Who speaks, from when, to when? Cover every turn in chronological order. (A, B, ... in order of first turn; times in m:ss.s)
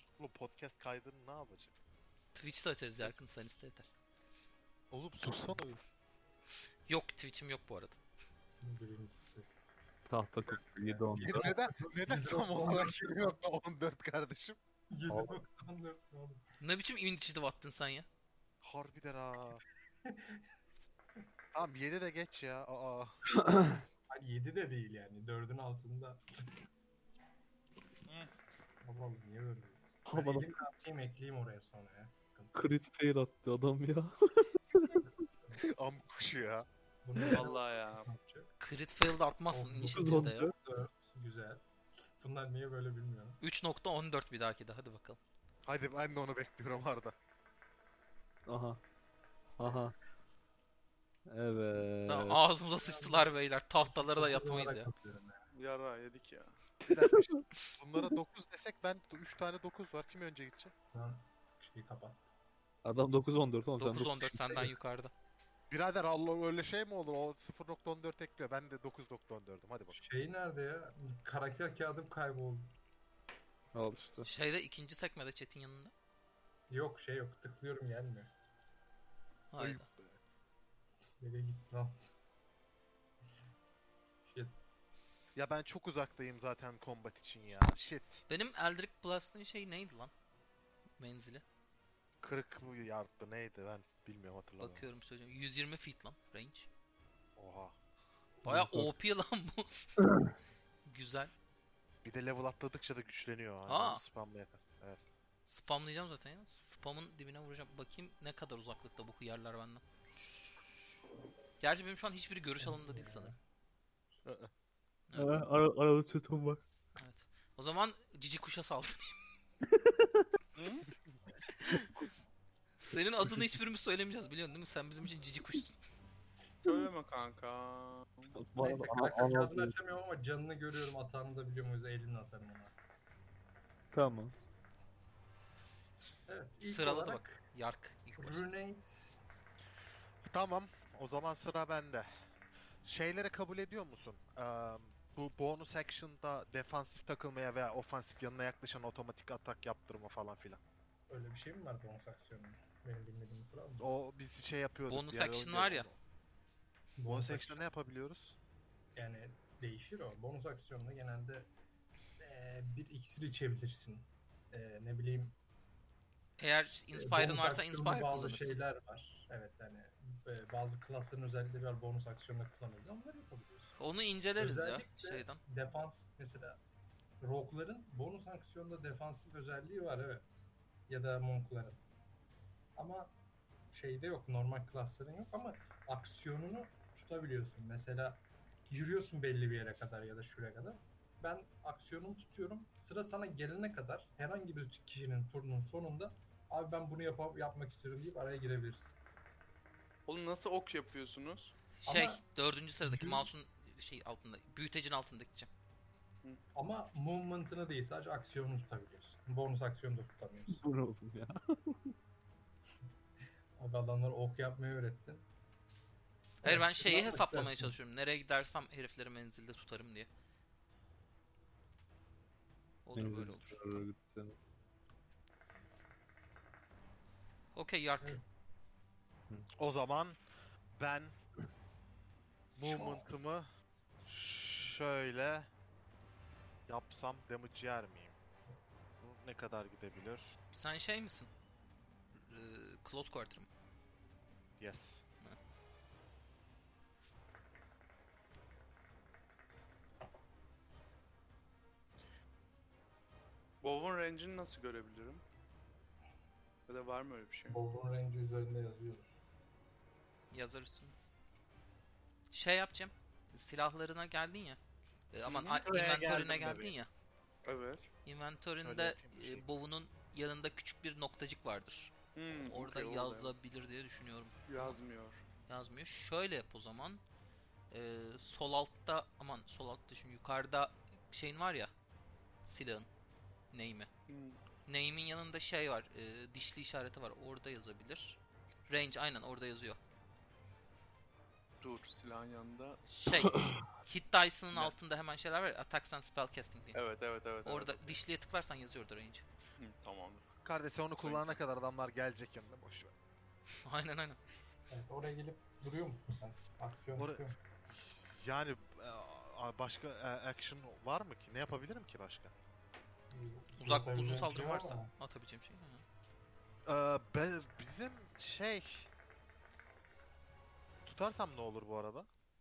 0:00.2-0:01.7 A
0:02.4-0:03.9 B
0:04.9-0:05.8 A
0:06.9-0:08.0 B
0:08.6-0:09.5 C
0:10.1-0:11.5 D
0:10.9-0:13.4 C
0:11.2-0:14.6 A
0:14.9-0:16.4 C
0:15.1-0:15.4 D
0:16.6-0:18.1 B
0:18.6-0:19.6 A
0:20.1-0:20.4 C
0:21.5-0:23.2 A
0:23.3-0:23.8 D
0:24.1-0:26.2 C
0:28.8-0:32.6 C
0:30.1-0:30.6 D
0:32.5-0:35.0 D
0:35.0-0:35.6 C
0:35.6-0:36.7 A
0:37.0-0:38.5 C
0:37.4-0:38.1 E
0:38.6-0:40.5 B
0:39.5-0:41.6 C
0:39.9-0:40.5 D
0:42.2-0:43.4 C
0:43.4-0:45.2 B
0:45.6-0:47.1 A
0:48.5-0:48.8 D
0:49.6-0:49.9 D
0:51.3-0:52.4 D
0:52.1-0:54.9 B
0:52.8-0:55.4 C
0:55.5-0:56.5 E
0:56.9-0:57.4 D
0:56.9-1:00.7 A
1:00.9-1:02.3 C
1:02.8-1:04.7 D
1:03.8-1:05.1 B
1:05.7-1:10.0 A
1:09.9-1:12.7 C
1:13.7-1:14.3 D
1:14.2-1:15.9 B
1:16.7-1:18.3 C
1:19.5-1:19.9 B
1:19.6-1:20.2 A
1:21.2-1:22.1 C
1:24.3-1:24.6 C
1:25.4-1:28.2 A
1:28.3-1:30.1 B
1:31.0-1:31.4 B
1:32.2-1:34.8 A
1:34.6-1:36.7 B
1:37.4-1:37.8 A
1:38.4-1:39.9 B
1:38.4-1:39.0 D
1:40.9-1:41.3 B
1:42.0-1:45.0 A
1:43.7-1:44.0 B
1:45.5-1:49.8 B
1:51.6-1:53.3 B
1:52.6-1:53.4 C
1:54.2-1:54.5 A
1:55.1-1:55.4 B
1:55.1-1:56.6 D
1:57.0-1:59.4 B
1:59.8-2:00.2 D
2:02.8-2:05.8 B
2:03.3-2:03.5 D
2:06.6-2:08.3 E
2:08.3-2:09.7 D
2:08.6-2:12.7 C
2:13.9-2:14.4 D
2:16.3-2:17.4 C
2:16.6-2:18.5 B
2:18.2-2:19.1 C
2:20.3-2:22.1 A
2:22.8-2:30.6 A
2:31.1-2:33.9 C
2:33.8-2:36.0 A
2:34.9-2:35.9 B
2:37.0-2:37.6 C
2:37.1-2:38.4 A
2:39.0-2:41.5 C
2:42.2-2:45.4 C
2:46.4-2:48.6 B
2:46.9-2:53.8 C
2:53.8-2:55.4 B
2:54.4-2:56.6 C
2:57.2-3:00.3 C
3:00.9-3:01.8 C
3:02.8-3:03.1 C
3:03.7-3:19.0 C
3:20.1-3:21.5 E
3:21.8-3:25.5 B
3:21.8-3:22.2 C
3:22.8-3:23.3 C
3:26.6-3:30.6 C
3:30.5-3:32.0 D
3:33.6-3:35.2 C
3:36.4-3:40.1 B
3:36.4-3:37.8 C
3:42.9-3:43.8 B
3:42.9-3:44.4 D
3:47.6-3:48.2 B
3:49.6-3:50.2 A
3:50.8-3:51.1 A
3:52.6-3:53.5 A
3:54.0-3:55.5 A
3:56.7-3:58.2 A
3:59.0-4:00.3 A
4:00.5-4:01.3 B
4:02.2-4:03.5 B
4:04.6-4:05.0 A
4:13.6-4:15.2 E
4:16.7-4:17.6 E
4:17.5-4:19.1 C
4:20.3-4:21.0 B
4:22.3-4:24.6 B
4:25.1-4:26.9 B
4:25.3-4:26.8 A
4:27.4-4:27.9 E
4:28.0-4:34.8 B
4:28.6-4:29.5 A
4:32.2-4:33.4 E
4:34.5-4:35.2 E
4:35.5-4:37.0 B
4:37.7-4:41.7 B
4:42.5-4:42.9 B
4:43.5-4:43.9 B
4:44.1-4:44.4 E
4:44.7-4:49.8 B
4:51.6-4:52.8 E
4:52.9-4:56.8 B
4:53.2-4:53.6 D
4:56.7-4:58.0 E
4:57.4-4:59.2 B
4:59.6-5:00.2 E
5:00.4-5:02.9 A
5:01.0-5:01.4 E
5:03.6-5:04.2 B
5:04.7-5:07.4 C
5:07.0-5:12.3 A
5:13.1-5:14.9 C
5:13.6-5:15.8 B
5:16.7-5:18.9 A
5:20.9-5:22.1 A